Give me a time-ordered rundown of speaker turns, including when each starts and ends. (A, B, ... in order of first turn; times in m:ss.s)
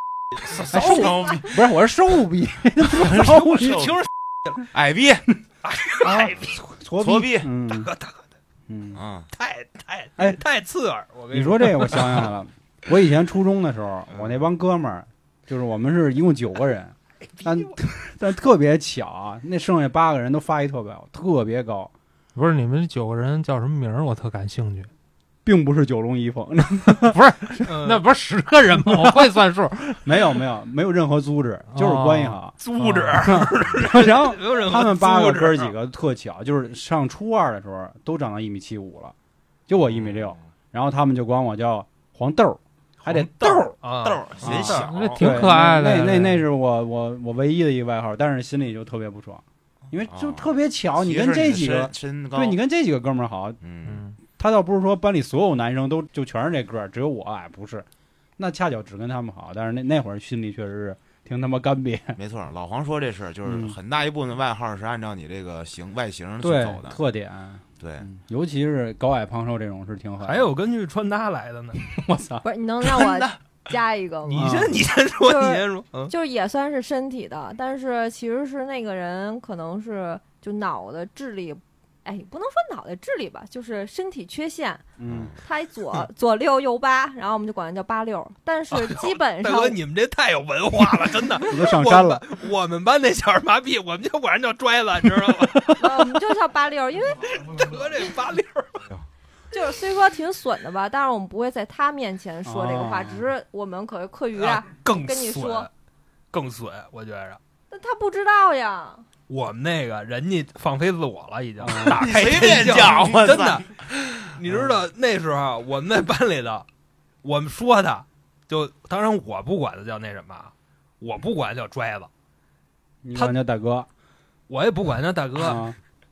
0:00.5-0:01.2 A
0:00.7-0:01.6 B
0:00.7-0:03.9 C
0:02.8-0:04.0 B
0:03.8-0:04.1 A
0:04.7-0:05.3 B
0:05.6-0:06.6 A
0:06.0-0:07.9 C
0:07.0-0:07.5 B
0:07.7-0:08.2 A
0:08.7-0:09.0 C
0:08.9-0:09.3 B
0:09.3-0:12.3 A
0:11.3-0:21.9 C
0:14.1-0:14.5 B
0:17.4-0:17.7 A
0:22.4-0:24.9 D
0:25.4-0:27.6 C
0:27.0-0:30.4 D
0:27.6-0:28.0 A
0:28.8-0:29.2 C
0:30.0-0:32.6 C
0:31.7-0:33.5 D
0:32.6-0:35.8 A
0:33.2-0:39.1 C
0:39.7-0:43.8 C
0:39.8-0:40.4 B
0:43.0-0:45.2 A
0:44.0-0:45.2 B
0:44.4-0:53.6 C
0:44.6-0:46.5 D
0:50.1-0:52.6 B
0:53.6-0:54.0 B
0:53.9-0:54.2 D
0:54.3-0:57.9 C
0:58.4-1:02.2 C
1:02.2-1:07.0 B
1:03.5-1:03.8 C
1:06.4-1:10.5 C
1:07.8-1:08.1 B
1:10.2-1:11.8 A
1:11.8-1:12.4 C
1:12.4-1:14.6 E
1:14.3-1:16.1 A
1:14.4-1:14.8 C
1:15.2-1:24.9 E
1:25.0-1:25.4 C
1:25.1-1:25.4 B
1:25.4-1:29.8 E
1:28.7-1:36.0 A
1:31.5-1:32.2 C
1:35.8-1:37.4 E
1:37.2-1:38.8 A
1:39.5-1:45.7 E
1:42.4-1:43.2 C
1:44.4-1:45.7 A
1:46.3-1:47.4 A
1:47.7-1:49.0 E
1:49.3-1:56.7 A
1:51.6-1:52.0 C
1:51.8-1:54.0 B
1:54.5-1:54.8 C
1:57.2-2:02.1 A
2:03.0-2:03.9 C
2:04.5-2:05.6 A
2:05.4-2:05.8 C